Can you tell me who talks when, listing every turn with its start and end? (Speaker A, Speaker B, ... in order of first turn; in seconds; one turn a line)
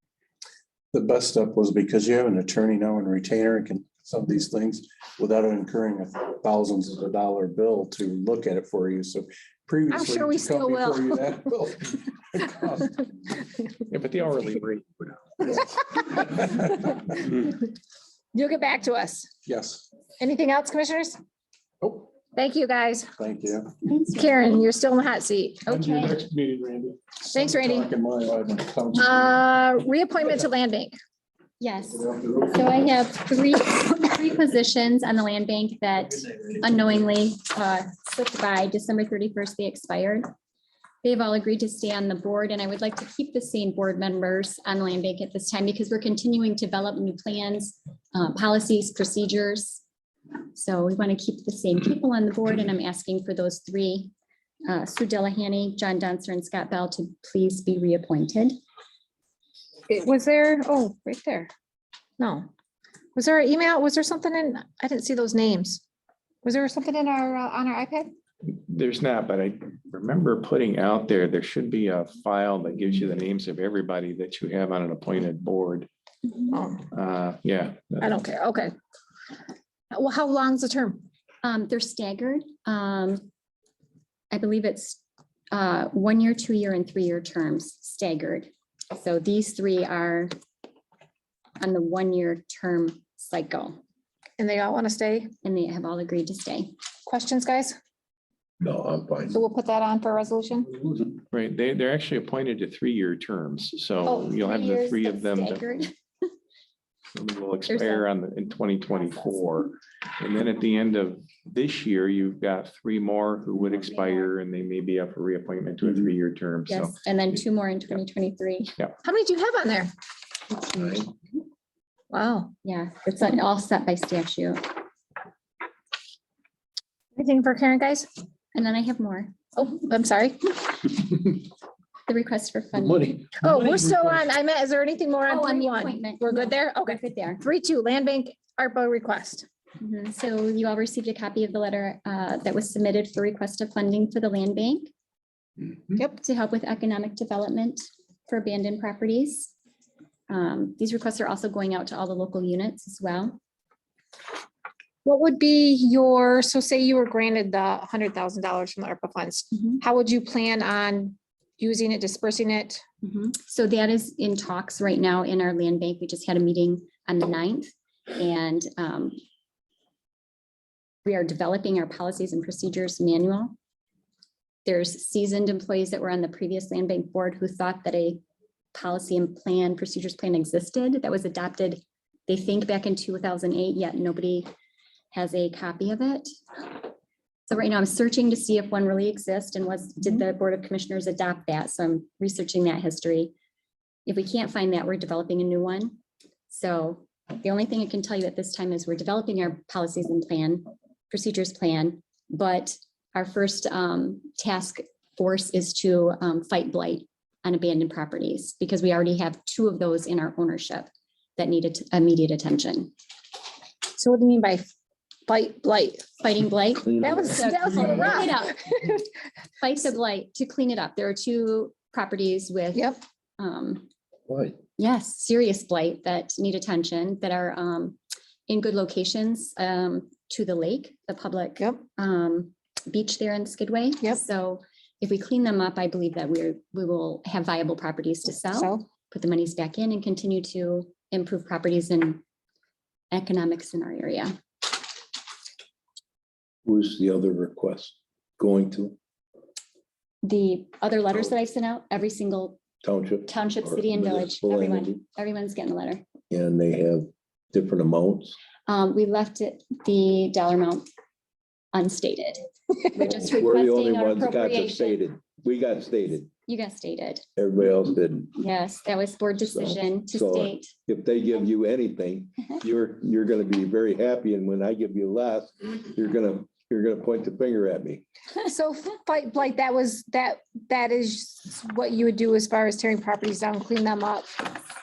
Speaker A: 0.9-13.4
Speaker B: 9.9-11.3
Speaker C: 13.9-15.1
Speaker B: 15.8-17.5
Speaker A: 15.9-16.9
Speaker B: 18.3-19.4
Speaker A: 19.4-19.9
Speaker B: 20.2-21.2
Speaker A: 21.8-22.1
Speaker B: 22.2-23.1
Speaker A: 23.2-23.7
Speaker D: 23.8-24.4
Speaker B: 24.1-25.7
Speaker D: 25.7-26.3
Speaker A: 25.9-29.2
Speaker B: 27.2-27.9
Speaker B: 28.9-30.9
Speaker D: 31.6-40.3
Speaker D: 41.0-49.8
Speaker D: 50.5-54.1
Speaker D: 54.7-58.6
Speaker B: 59.9-61.5
Speaker B: 62.2-62.5
Speaker B: 63.1-65.8
Speaker B: 66.4-68.2
Speaker C: 68.5-75.9
Speaker D: 76.3-76.5
Speaker B: 76.5-76.9
Speaker C: 76.9-78.2
Speaker B: 78.0-78.8
Speaker B: 79.9-81.1
Speaker D: 81.4-83.3
Speaker D: 84.3-90.3
Speaker D: 91.6-93.8
Speaker B: 94.4-95.3
Speaker D: 95.4-96.7
Speaker B: 97.1-97.8
Speaker E: 98.6-99.4
Speaker B: 99.3-100.9
Speaker C: 101.3-105.8
Speaker D: 104.0-105.9
Speaker C: 107.1-116.9
Speaker D: 107.7-108.1
Speaker D: 109.0-109.4
Speaker D: 116.7-118.8
Speaker B: 119.0-119.9
Speaker E: 120.6-121.1
Speaker B: 122.1-122.5
Speaker D: 122.6-124.7
Speaker B: 127.2-128.1
Speaker D: 128.6-129.4
Speaker B: 129.6-130.9
Speaker D: 132.1-133.3
Speaker B: 133.4-139.5
Speaker D: 135.3-137.4
Speaker D: 139.8-144.9
Speaker D: 146.1-149.5
Speaker D: 150.3-153.4
Speaker B: 155.1-162.8
Speaker D: 159.6-159.8
Speaker D: 163.0-169.2
Speaker D: 171.1-173.6
Speaker D: 174.7-184.5
Speaker D: 185.1-186.8
Speaker D: 187.5-193.3
Speaker D: 194.1-196.0
Speaker D: 196.5-212.9
Speaker B: 213.9-214.7
Speaker B: 215.3-216.1
Speaker D: 216.2-218.9
Speaker E: 216.8-218.3
Speaker B: 217.0-219.0
Speaker D: 219.6-223.9
Speaker B: 222.8-223.0
Speaker E: 224.3-224.6
Speaker D: 224.8-242.2
Speaker B: 238.5-238.8
Speaker D: 243.1-244.3
Speaker E: 246.7-249.0
Speaker D: 250.2-252.6
Speaker E: 252.8-255.0
Speaker D: 253.3-256.0
Speaker E: 256.3-258.4
Speaker D: 258.7-260.9
Speaker D: 261.7-265.0
Speaker E: 263.0-266.3
Speaker D: 266.5-267.2
Speaker E: 267.4-268.4
Speaker D: 268.4-270.7
Speaker E: 269.5-278.1
Speaker B: 278.4-284.5